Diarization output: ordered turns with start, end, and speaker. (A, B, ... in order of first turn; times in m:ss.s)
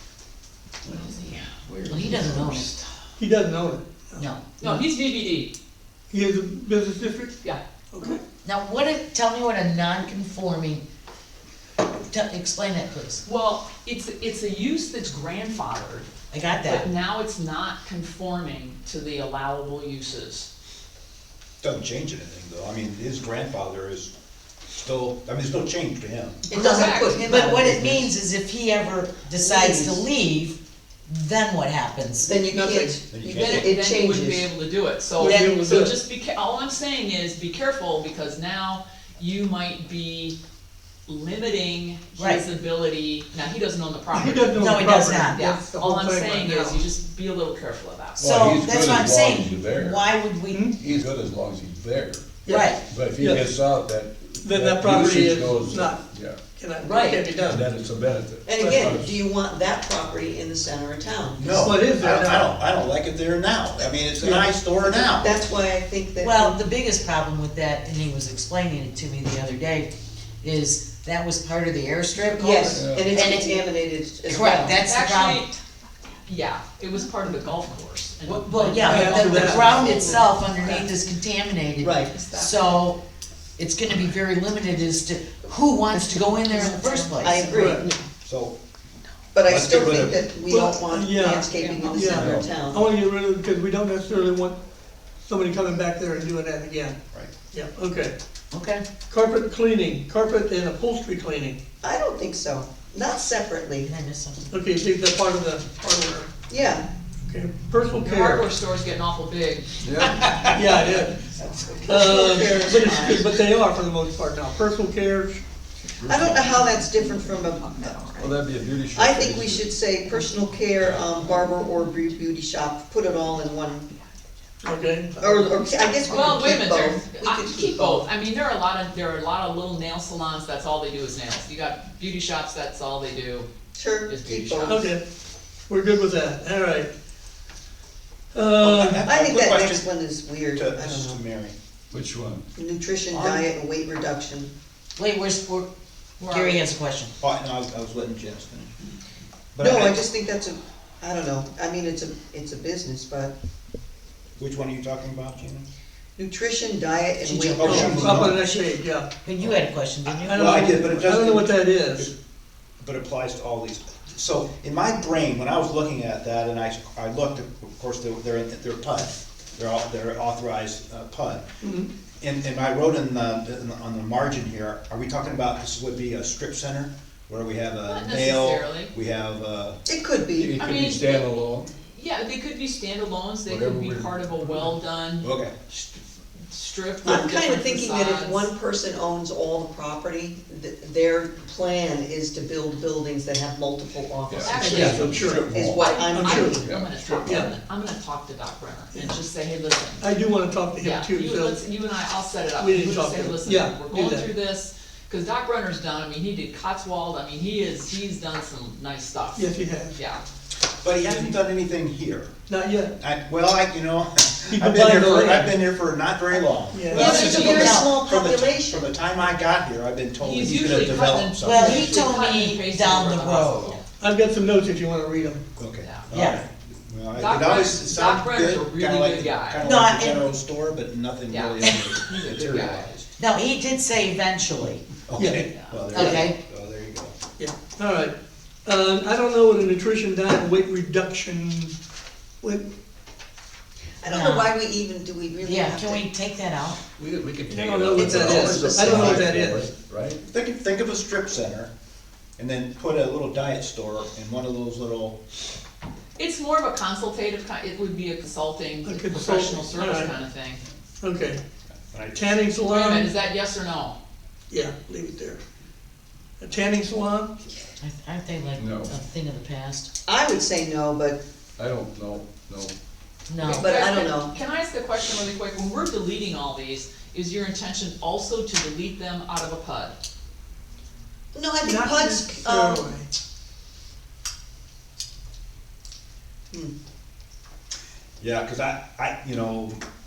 0:00.8-0:02.7 A
0:00.9-0:01.5 B
0:01.9-0:02.7 C
0:03.2-0:04.3 D
0:04.2-0:04.9 C
0:04.6-0:05.5 B
0:06.1-0:07.4 D
0:07.9-0:08.2 D
0:08.4-0:10.8 C
0:11.8-0:13.2 C
0:13.2-0:16.1 B
0:16.3-0:16.9 C
0:16.6-0:20.5 B
0:21.6-0:24.1 E
0:24.7-0:26.5 E
0:26.5-0:28.1 F
0:26.5-0:32.5 C
0:26.6-0:27.2 B
0:29.4-0:30.0 F
0:32.2-0:34.4 F
0:33.0-0:33.7 E
0:33.4-0:40.4 B
0:35.2-0:36.0 D
0:41.1-0:44.6 B
0:42.2-0:42.4 C
0:44.1-0:46.8 D
0:44.5-0:45.4 C
0:45.2-0:48.2 B
0:48.2-0:50.1 A
0:48.2-0:50.7 C
0:50.5-0:50.7 D
0:50.7-0:52.3 A
0:52.4-0:53.5 D
0:52.4-0:52.8 C
0:52.9-0:56.4 A
0:54.4-0:57.6 D
0:56.8-0:57.2 B
0:57.4-0:59.2 A
0:58.4-1:01.7 F
1:01.4-1:05.4 E
1:01.5-1:02.5 D
1:04.2-1:04.5 D
1:04.8-1:06.6 F
1:06.2-1:09.9 C
1:10.4-1:13.6 C
1:12.3-1:14.8 F
1:12.7-1:13.2 A
1:14.2-1:15.4 C
1:14.8-1:15.6 B
1:16.2-1:20.3 B
1:18.2-1:23.0 C
1:18.8-1:20.1 D
1:19.9-1:20.1 F
1:21.8-1:22.1 F
1:22.1-1:22.6 B
1:23.6-1:27.6 C
1:26.7-1:27.9 B
1:27.2-1:27.9 F
1:27.5-1:27.8 D
1:28.2-1:28.5 E
1:29.3-1:32.9 F
1:29.4-1:30.9 E
1:30.5-1:34.6 D
1:31.5-1:32.2 B
1:32.1-1:32.5 A
1:35.2-1:37.0 D
1:37.5-1:38.1 D
1:38.5-1:38.8 C
1:39.1-1:41.6 D
1:41.8-1:43.9 F
1:43.8-1:44.5 C
1:44.5-1:46.3 D
1:46.5-1:46.9 F
1:47.2-1:48.5 D
1:48.0-1:49.7 B
1:49.8-1:50.5 A
1:50.0-1:50.7 E
1:50.5-1:51.2 D
1:51.5-1:53.3 F
1:51.8-1:55.4 D
1:56.0-1:56.4 A
1:56.0-1:58.4 F
1:57.4-1:58.1 B
1:58.2-1:59.8 A
1:58.9-2:03.9 F
2:00.8-2:01.5 A
2:04.6-2:05.6 D
2:05.2-2:08.0 F
2:06.1-2:13.5 B
2:13.7-2:14.9 F
2:14.1-2:14.8 B
2:14.6-2:15.0 D
2:15.7-2:16.9 D
2:18.3-2:19.1 D
2:18.5-2:21.5 E
2:19.0-2:21.2 F
2:21.9-2:22.4 A
2:22.5-2:24.5 F
2:23.1-2:23.5 E
2:25.0-2:27.1 C
2:26.2-2:26.6 B
2:27.2-2:28.7 E
2:29.5-2:30.0 E
2:29.6-2:33.3 F
2:34.4-2:35.6 E
2:36.2-2:38.2 F
2:37.2-2:38.7 C
2:37.5-2:38.4 E
2:37.6-2:39.1 D
2:39.2-2:41.0 C
2:39.4-2:42.1 E
2:40.2-2:42.1 D
2:42.8-2:51.4 E
2:51.6-2:51.9 D
2:52.2-2:59.8 E
2:57.9-2:58.9 B
2:59.8-3:00.6 F
3:00.3-3:01.7 A
3:00.6-3:01.3 B
3:01.9-3:08.5 B
3:03.5-3:04.7 A
3:05.2-3:05.5 E
3:07.0-3:16.6 F
3:14.3-3:15.9 A
3:14.4-3:20.1 B
3:14.6-3:15.5 D
3:15.1-3:15.7 E
3:16.1-3:17.5 D
3:16.4-3:17.3 A
3:20.0-3:21.6 D
3:20.8-3:30.2 B
3:22.6-3:24.3 D
3:29.3-3:30.0 D
3:30.8-3:32.3 E
3:32.5-3:33.0 D
3:33.0-3:37.3 E
3:34.5-3:35.5 D
3:36.7-3:37.2 D
3:36.9-3:38.0 C
3:36.9-3:38.9 F
3:37.0-3:37.8 B
3:37.9-3:42.0 E
3:40.2-3:43.8 B
3:41.4-3:43.8 C
3:44.0-3:45.4 D
3:45.6-3:53.1 E
3:45.8-3:46.1 B
3:46.1-3:46.4 C
3:47.2-3:49.6 B
3:49.6-3:50.3 C
3:51.3-3:52.9 B
3:51.6-3:52.0 C
3:53.2-3:54.8 C
3:55.1-3:57.1 E
3:55.1-3:55.4 D
3:55.5-3:55.8 B
3:55.9-3:56.4 C
3:56.0-3:56.2 D
3:57.4-4:01.7 D
4:02.4-4:02.6 D
4:04.0-4:06.1 F
4:04.0-4:04.5 C
4:05.4-4:06.8 C
4:07.0-4:10.2 A
4:07.5-4:09.7 D
4:07.9-4:09.0 F
4:09.0-4:09.3 E
4:10.2-4:11.7 E
4:12.4-4:15.2 E
4:16.2-4:20.6 B
4:18.8-4:20.2 D
4:21.0-4:21.4 D
4:21.9-4:22.4 E
4:22.1-4:23.1 D
4:22.6-4:24.0 B
4:24.5-4:25.4 D
4:26.4-4:27.3 D
4:27.8-4:29.9 C
4:28.6-4:28.9 A
4:30.0-4:31.2 F
4:31.6-4:32.7 A
4:33.3-4:33.7 C
4:33.4-4:40.0 B
4:33.5-4:34.3 F
4:41.3-4:42.9 F
4:41.6-4:43.1 D
4:48.2-4:49.8 E